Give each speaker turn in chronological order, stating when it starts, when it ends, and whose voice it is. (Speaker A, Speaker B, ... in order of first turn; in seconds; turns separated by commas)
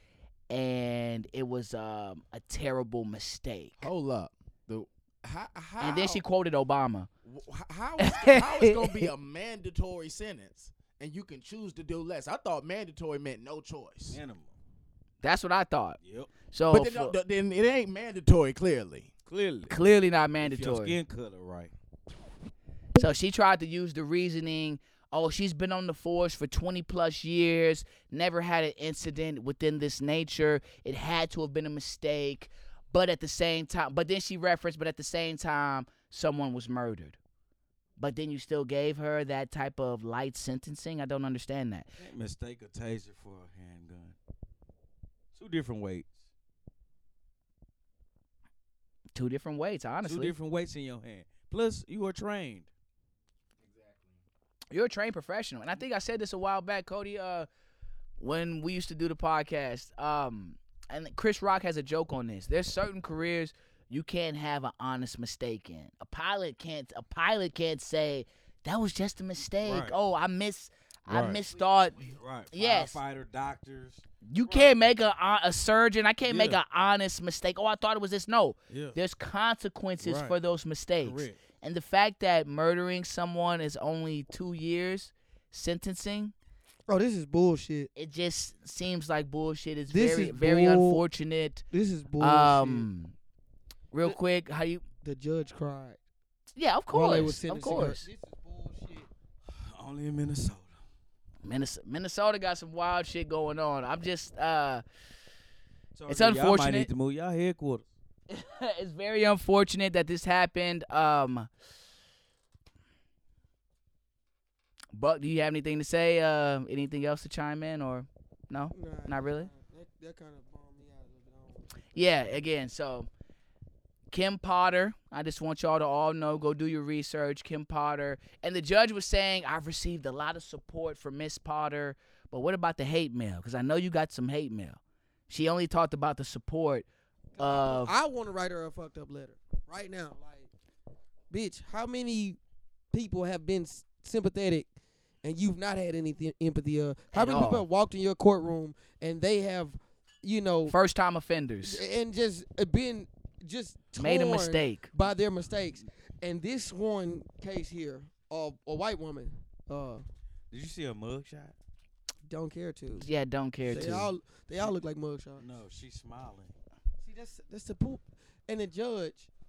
Speaker A: 0.5-3.9, Speaker B: 3.8-6.2, Speaker A: 5.8-7.1, Speaker B: 7.2-14.2, Speaker A: 8.0-9.1, Speaker C: 14.1-14.5, Speaker A: 15.2-16.0, Speaker C: 16.0-16.3, Speaker A: 16.5-17.1, Speaker B: 16.7-19.1, Speaker C: 19.3-19.7, Speaker A: 19.7-21.0, Speaker C: 20.4-21.7, Speaker A: 23.0-37.2, Speaker A: 38.0-41.9, Speaker C: 42.0-44.1, Speaker C: 45.3-46.1, Speaker A: 49.1-50.3, Speaker C: 50.0-52.7, Speaker B: 53.6-54.2, Speaker A: 54.7-57.5, Speaker A: 58.2-73.0, Speaker C: 69.6-69.9, Speaker C: 71.1-71.4, Speaker C: 72.0-74.8, Speaker A: 74.2-86.3, Speaker C: 76.2-76.6, Speaker C: 78.7-79.0, Speaker C: 80.0-80.3, Speaker C: 81.0-81.4, Speaker D: 86.9-87.9, Speaker A: 87.9-91.6, Speaker D: 89.9-91.0, Speaker D: 91.7-92.9, Speaker A: 92.2-93.1, Speaker A: 93.9-94.8, Speaker D: 95.0-96.0, Speaker A: 96.5-98.0, Speaker D: 96.9-99.1, Speaker C: 99.5-100.7, Speaker A: 101.4-104.8, Speaker C: 105.9-107.9, Speaker A: 106.1-106.9, Speaker A: 108.3-111.5, Speaker A: 114.9-119.5, Speaker D: 118.7-121.7, Speaker A: 121.9-123.1, Speaker A: 124.1-136.8, Speaker D: 137.4-140.5, Speaker A: 137.4-137.9, Speaker D: 141.3-142.4, Speaker D: 142.9-144.7, Speaker D: 145.2-150.8, Speaker A: 147.1-147.6, Speaker A: 150.7-151.8, Speaker D: 151.6-160.0, Speaker A: 154.0-154.9, Speaker C: 160.5-161.5, Speaker D: 162.2-163.1, Speaker A: 163.0-164.1, Speaker D: 163.6-165.4, Speaker C: 163.7-164.0, Speaker C: 165.4-166.5, Speaker D: 167.0-169.3